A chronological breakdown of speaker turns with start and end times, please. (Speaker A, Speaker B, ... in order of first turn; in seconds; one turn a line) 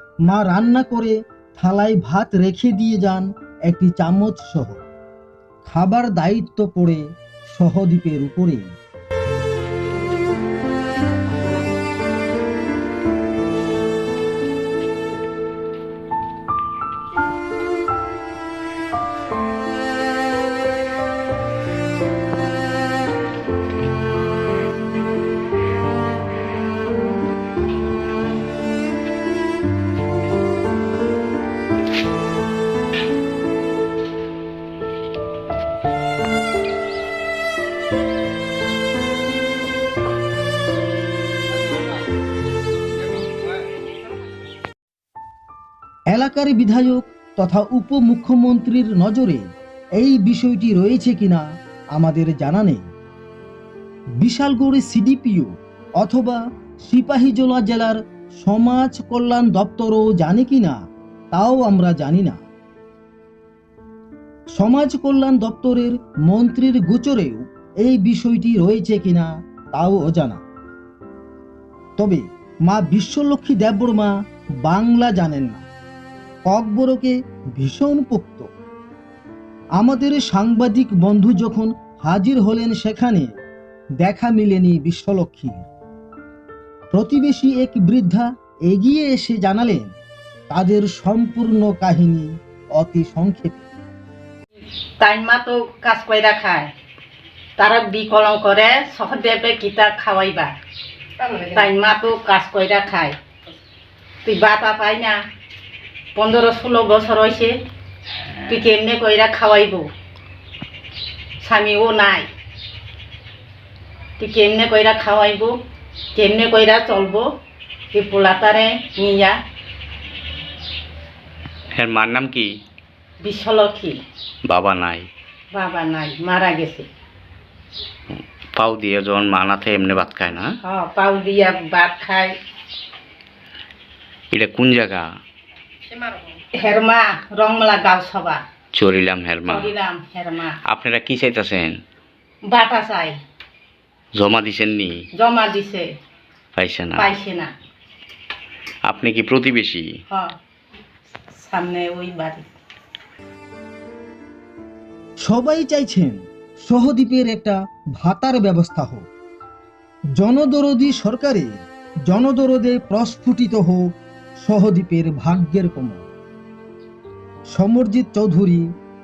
Speaker A: 0.3-4.8
Speaker A: 5.6-8.7
Speaker A: 46.1-52.9
Speaker A: 54.2-60.8
Speaker A: 61.3-62.4
Speaker A: 64.5-70.4
Speaker A: 72.0-75.6
Speaker A: 76.5-78.5
Speaker A: 79.8-83.3
Speaker A: 84.0-85.7
Speaker A: 86.9-89.9
Speaker A: 90.5-93.6
Speaker B: 95.0-96.7
Speaker B: 97.6-100.5
Speaker B: 101.3-103.2
Speaker B: 104.2-105.2
Speaker B: 106.1-107.5
Speaker B: 108.5-109.9
Speaker B: 111.4-112.3
Speaker B: 114.2-115.6
Speaker B: 116.2-117.2
Speaker B: 117.9-119.4
Speaker C: 121.7-122.5
Speaker B: 123.2-124.0
Speaker C: 124.5-125.1
Speaker B: 125.5-126.9
Speaker C: 128.5-130.5
Speaker B: 130.6-132.3
Speaker C: 134.3-135.1
Speaker B: 136.4-138.4
Speaker C: 138.7-139.7
Speaker B: 139.5-140.6
Speaker C: 140.7-141.8
Speaker B: 142.5-143.2
Speaker C: 144.2-145.0
Speaker B: 145.2-145.9
Speaker C: 146.6-147.1
Speaker B: 147.0-147.5
Speaker C: 148.9-149.8
Speaker B: 150.1-150.3
Speaker B: 151.3-152.5
Speaker A: 155.2-159.1
Speaker A: 160.2-163.9
Speaker A: 164.4-166.1
Speaker A: 167.5-168.7